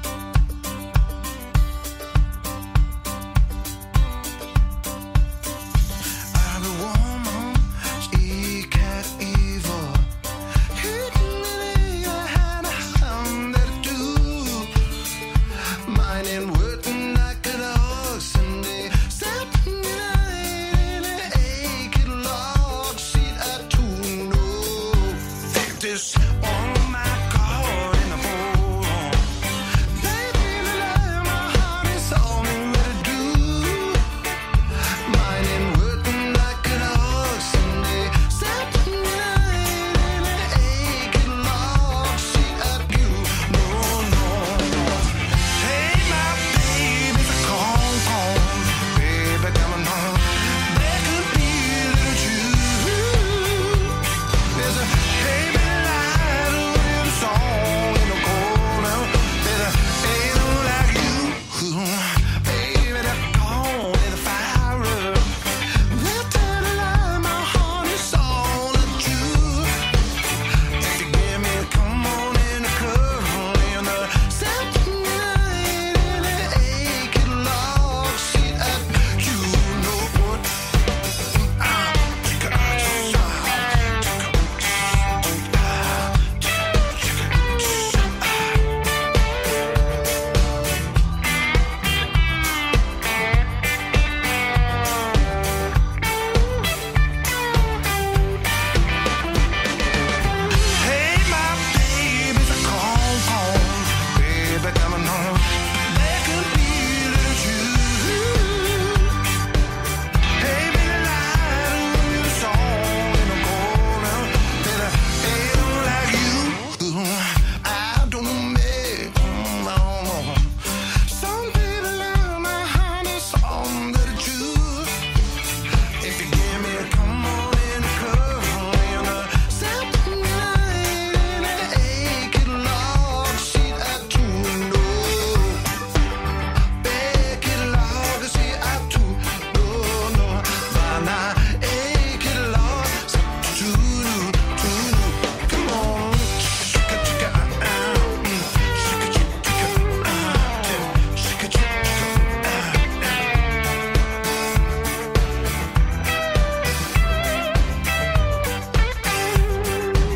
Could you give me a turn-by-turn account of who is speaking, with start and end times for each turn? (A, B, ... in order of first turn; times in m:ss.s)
0:06.3-0:10.1 A
0:10.7-0:14.7 A
0:15.8-0:34.0 A
0:35.0-0:54.0 A
0:54.5-1:09.9 A
1:10.8-1:20.8 A
1:21.3-1:28.6 A
1:40.6-1:49.1 A
1:50.4-2:05.1 A
2:06.0-2:15.7 A
2:16.8-2:33.3 A